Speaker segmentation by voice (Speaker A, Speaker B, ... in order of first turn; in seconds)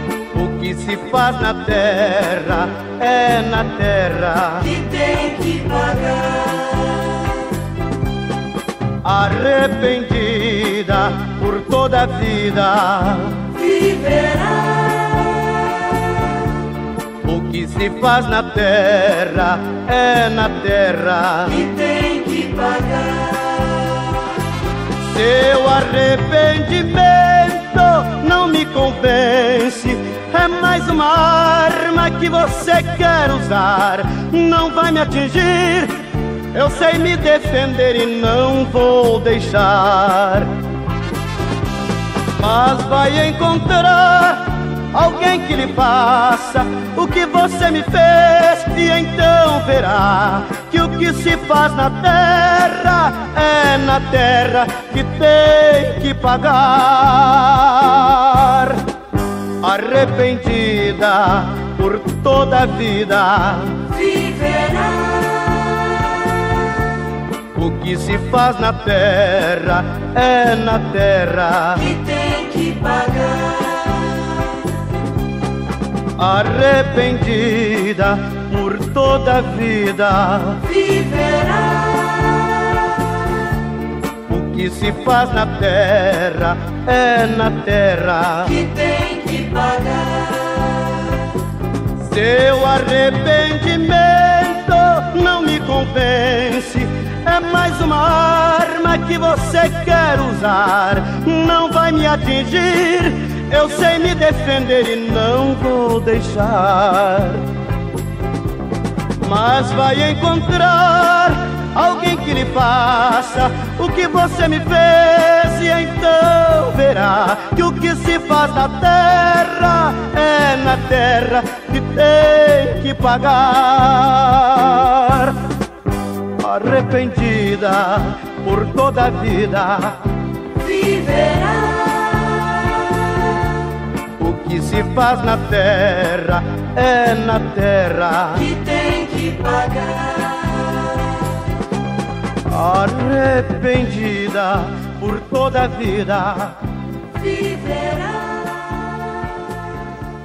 Speaker A: 0.3-4.8, 9.0-13.5, 17.2-21.7, 25.0-36.0, 36.5-40.5, 42.4-58.8, 59.6-63.9, 67.5-71.9, 76.2-80.7, 84.3-88.6, 92.0-107.5, 109.2-125.4, 126.4-130.1, 134.2-138.5, 142.4-146.6
Speaker B: 4.7-7.4, 13.6-16.3, 21.6-24.2, 63.9-66.4, 71.8-74.7, 80.7-83.1, 88.5-91.3, 130.6-133.4, 138.5-141.1, 147.2-149.3